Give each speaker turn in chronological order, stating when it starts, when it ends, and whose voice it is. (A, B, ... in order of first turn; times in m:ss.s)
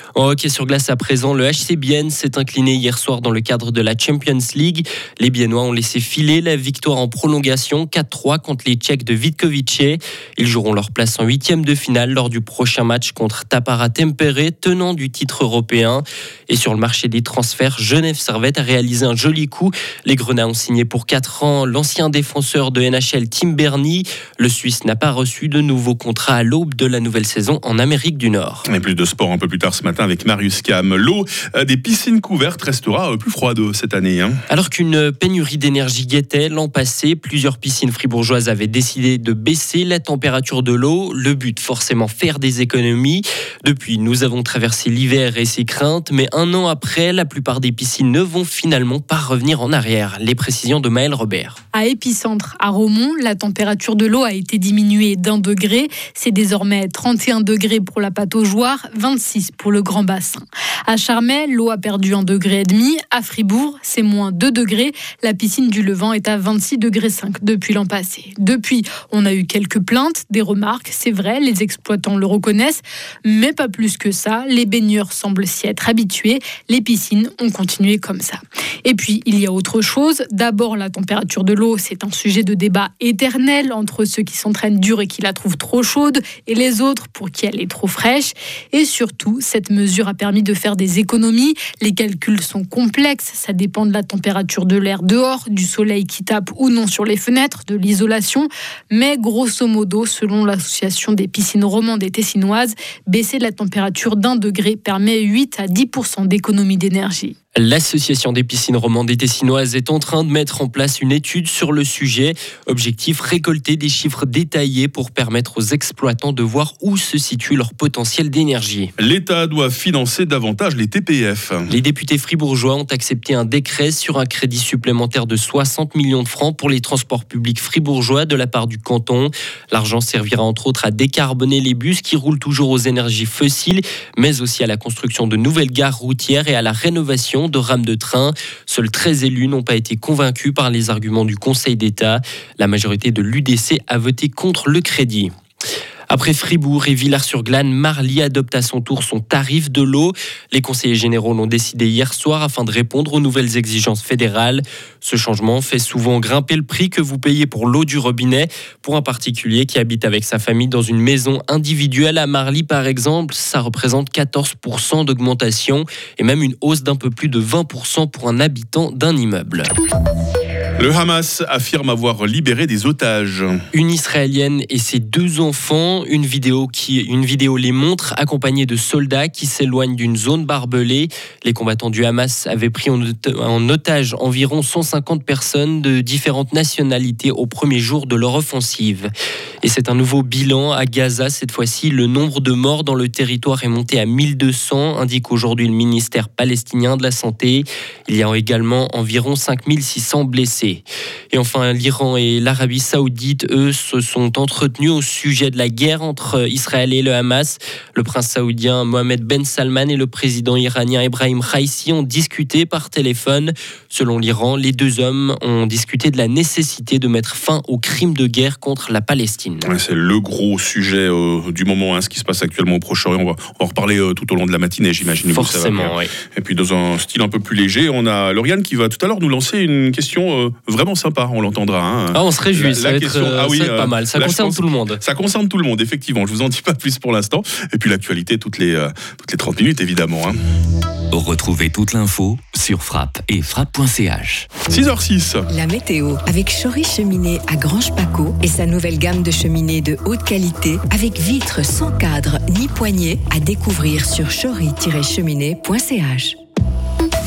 0:00.2-0:28.6 A
0:28.6-0:34.4 B
0:34.5-0:51.6 A
0:51.7-1:47.4 C
1:47.6-1:58.9 A
1:59.0-2:01.7 B
2:01.7-2:25.3 A
2:26.1-2:49.7 A
2:50.8-2:53.6 B
2:53.7-3:09.1 A
3:09.6-3:39.7 A
3:39.6-4:00.4 B
3:45.1-3:46.1 A
3:52.1-3:55.0 A
4:01.1-4:04.5 D
4:04.7-4:05.4 B
4:05.5-4:16.3 E